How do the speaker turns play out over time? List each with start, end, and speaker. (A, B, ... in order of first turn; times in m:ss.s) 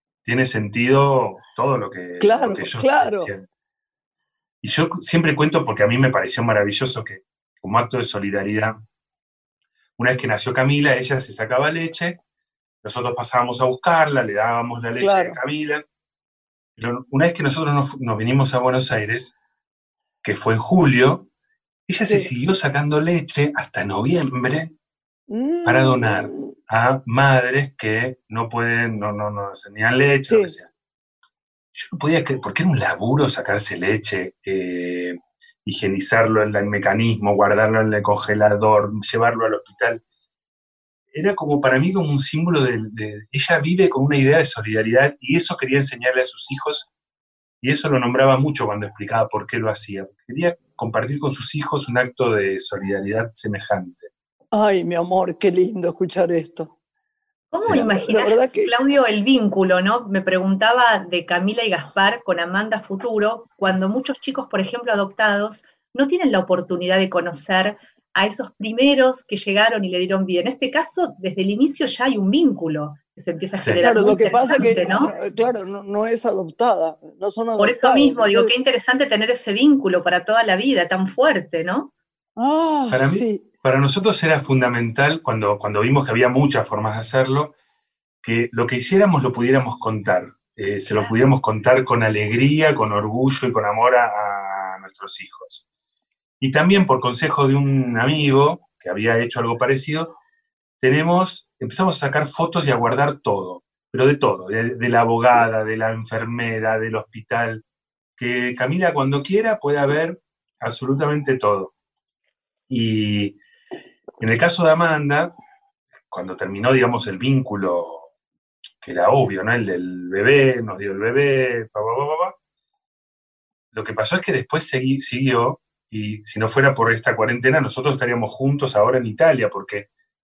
0:00.2-0:03.4 A
0:02.2-0:03.3 B
0:04.6-0:08.8 A
0:10.0-0:12.2 A
0:12.8-0:15.8 A
0:15.0-0:15.4 B
0:16.8-0:19.3 A
0:20.2-0:21.3 A
0:21.9-0:24.7 A
0:25.3-0:26.5 B
0:25.6-0:30.7 A
0:30.3-0:30.5 B
0:31.7-0:40.0 A
0:41.1-0:46.9 A
0:47.6-0:54.1 A
0:54.5-0:56.7 B
0:57.5-1:15.1 C
0:57.7-0:58.7 B
1:13.6-1:13.8 A
1:13.8-1:18.5 B
1:17.6-1:21.9 C
1:22.4-1:23.4 B
1:22.9-1:27.5 A
1:28.2-1:35.6 A
1:36.4-1:40.2 A
1:40.8-1:47.6 A
1:48.2-1:51.7 A
1:52.7-1:53.4 A
1:54.2-1:55.3 A
1:56.1-1:58.1 A
1:58.8-2:02.4 A
2:03.7-2:09.9 A